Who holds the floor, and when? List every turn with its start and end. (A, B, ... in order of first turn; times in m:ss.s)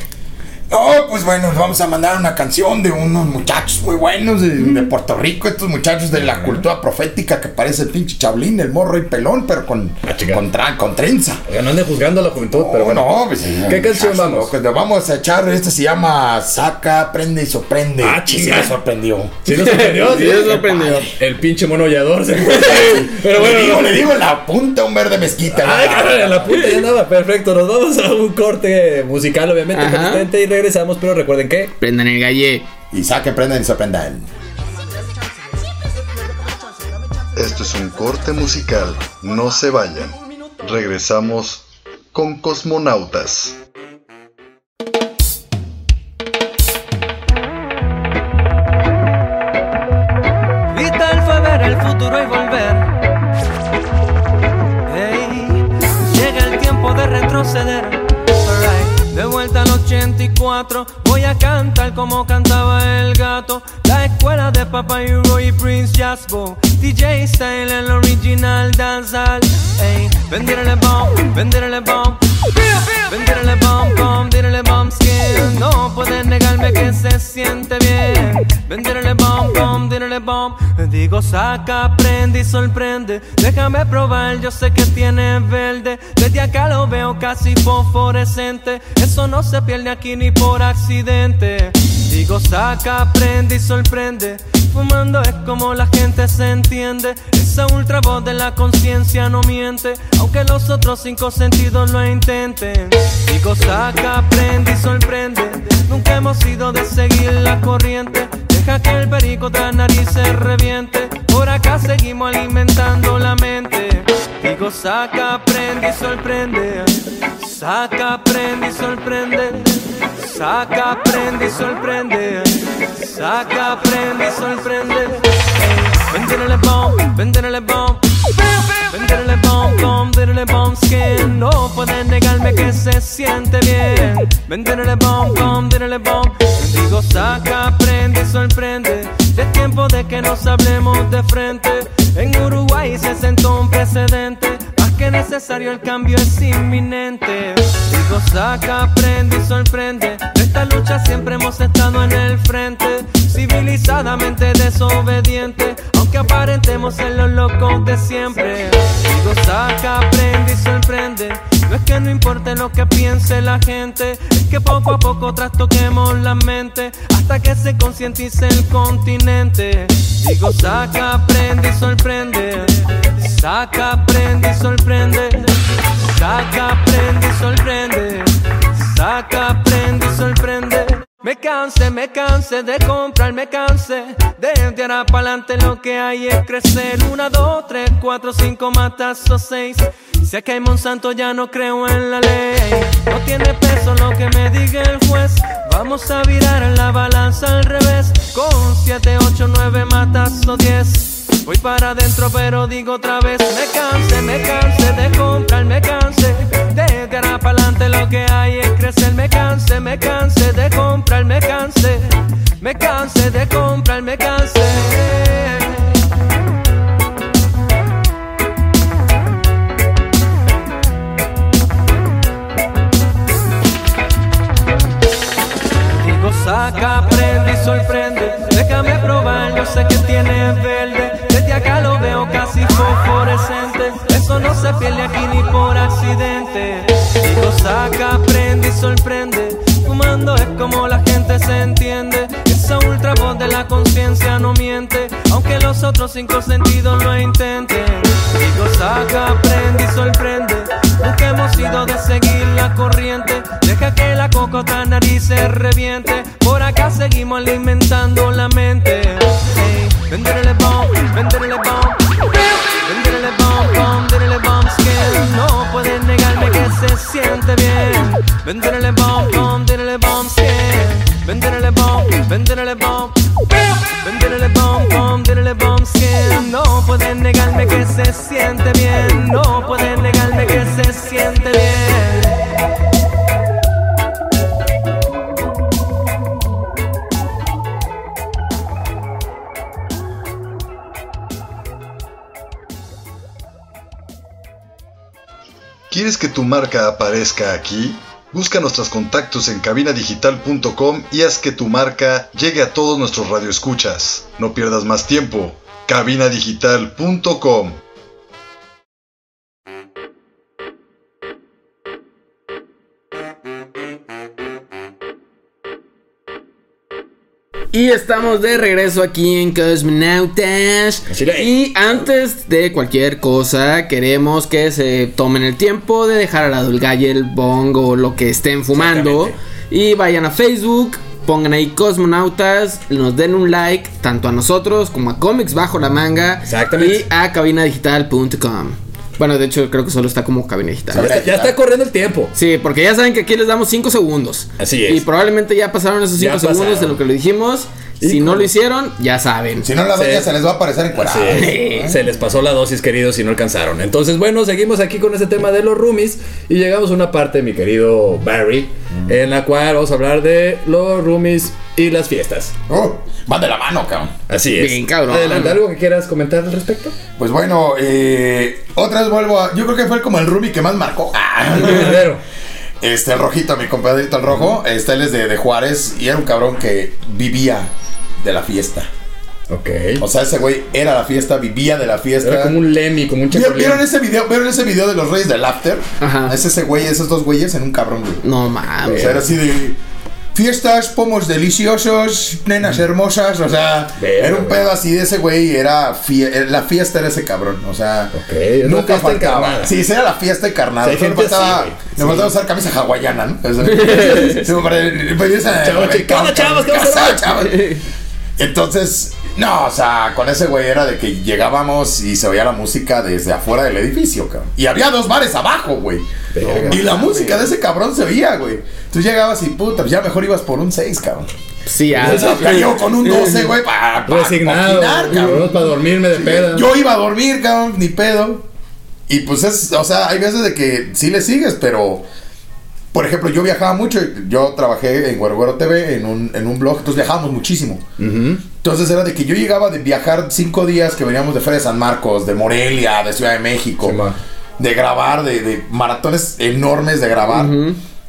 0:00.7-0:11.4 A
0:06.2-0:06.6 B
0:10.0-0:10.4 B
0:11.5-0:14.5 B
0:12.5-0:19.4 A
0:18.0-0:18.8 B
0:19.4-0:24.0 B
0:19.5-0:21.1 C
0:20.5-0:21.1 A
0:22.5-0:26.7 A
0:25.5-0:31.7 B
0:29.7-0:30.3 C
0:31.8-0:32.7 C
0:32.9-0:34.3 A
0:37.3-0:43.6 D
0:50.7-0:52.9 E
0:54.8-1:12.2 E
1:12.9-2:08.0 E
2:08.9-3:35.8 E
3:46.0-4:22.0 E
4:22.7-4:33.2 E
4:33.9-4:42.5 E
4:55.9-5:07.8 D
5:17.7-5:41.2 C
5:21.1-5:21.7 B
5:28.7-5:29.3 B
5:36.4-5:37.0 B
5:40.9-5:41.5 A
5:40.9-5:42.3 B
5:42.3-5:49.6 C
5:44.6-5:45.0 B
5:46.2-5:47.0 B
5:48.0-5:48.5 B
5:49.6-5:52.0 A
5:49.9-5:50.3 B
5:51.0-6:02.5 B
5:51.3-5:51.9 C
6:02.7-6:04.1 A
6:04.3-6:06.9 B
6:04.6-6:05.6 C
6:07.2-6:12.0 A
6:11.5-6:12.2 B
6:12.8-6:18.9 A
6:19.5-6:20.0 B
6:20.0-6:22.6 A
6:22.2-6:23.8 B
6:23.3-6:28.2 A
6:26.0-6:26.4 C
6:28.2-6:29.2 C
6:28.8-6:29.8 A
6:28.9-6:29.1 B
6:30.3-6:47.8 A
6:34.0-6:34.6 B
6:38.1-6:39.7 B
6:40.8-6:42.3 B
6:43.7-6:44.4 C
6:43.8-6:44.5 B
6:45.6-6:47.4 B
6:47.5-6:47.8 C
6:48.4-7:01.3 A
6:56.3-6:56.8 B
6:56.7-6:57.4 C
7:01.6-7:03.5 C
7:01.9-7:02.8 B
7:02.0-7:08.4 A
7:04.1-7:06.7 B
7:09.1-7:12.0 A
7:12.9-7:17.8 A
7:18.0-7:18.4 B
7:18.6-7:24.0 A
7:23.8-7:24.2 B
7:24.6-7:27.6 A
7:27.3-7:27.8 C